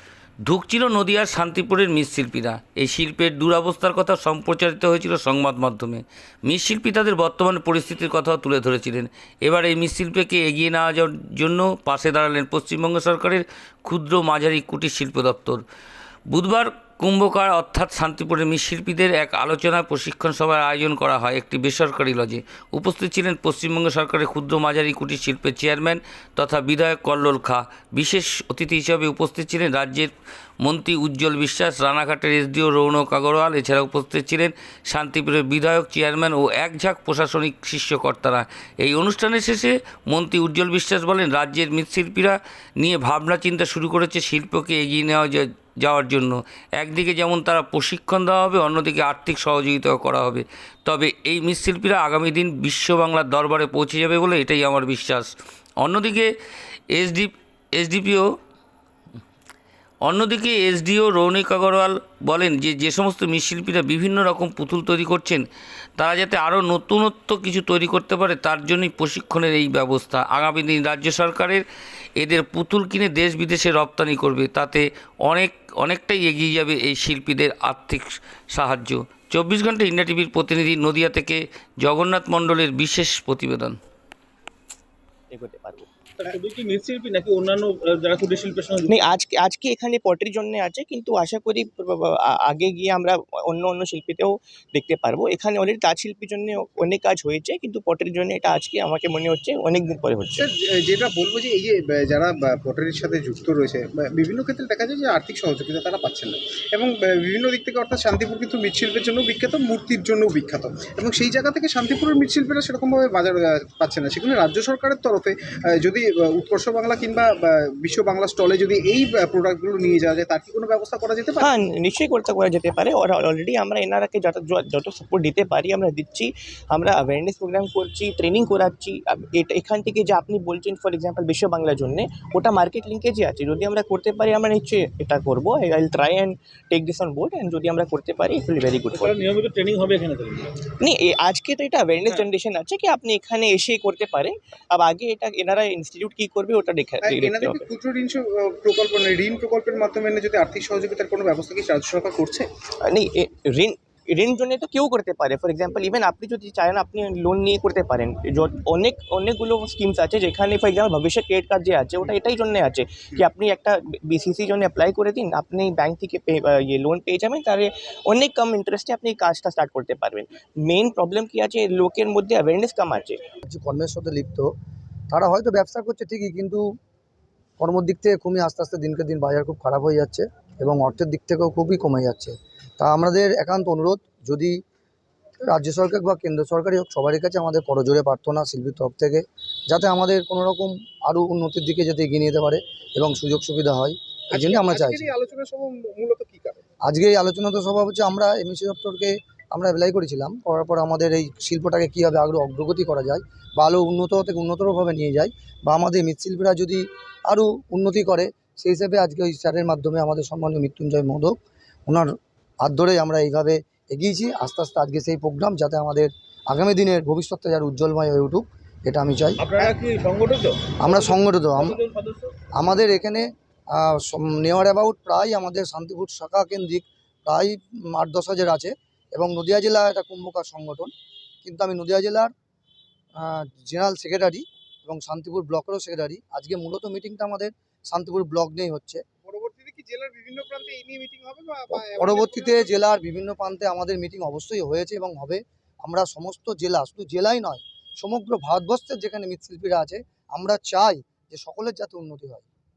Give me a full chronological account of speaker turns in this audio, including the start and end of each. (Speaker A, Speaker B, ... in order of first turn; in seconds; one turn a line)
Speaker A: 0.4-15.6
Speaker A: 16.3-55.3
Speaker A: 55.8-56.3
Speaker A: 56.9-58.2
Speaker A: 60.0-65.4
Speaker A: 66.0-71.6
Speaker A: 72.2-83.8
Speaker B: 85.3-85.9
Speaker C: 86.2-89.0
Speaker B: 88.9-100.5
Speaker D: 100.3-121.5
Speaker B: 121.4-139.2
Speaker C: 138.9-140.5
Speaker B: 140.8-147.7
Speaker D: 147.0-152.4
Speaker B: 152.8-173.2
Speaker E: 173.4-174.5
Speaker E: 175.1-176.6
Speaker E: 177.6-184.5
Speaker E: 185.4-195.1
Speaker D: 194.3-196.6
Speaker E: 196.8-211.3
Speaker E: 212.6-219.7
Speaker C: 219.4-222.3
Speaker E: 220.8-221.8
Speaker E: 222.6-230.9
Speaker E: 231.4-232.3
Speaker E: 233.2-239.0
Speaker D: 239.2-242.9
Speaker E: 241.7-252.4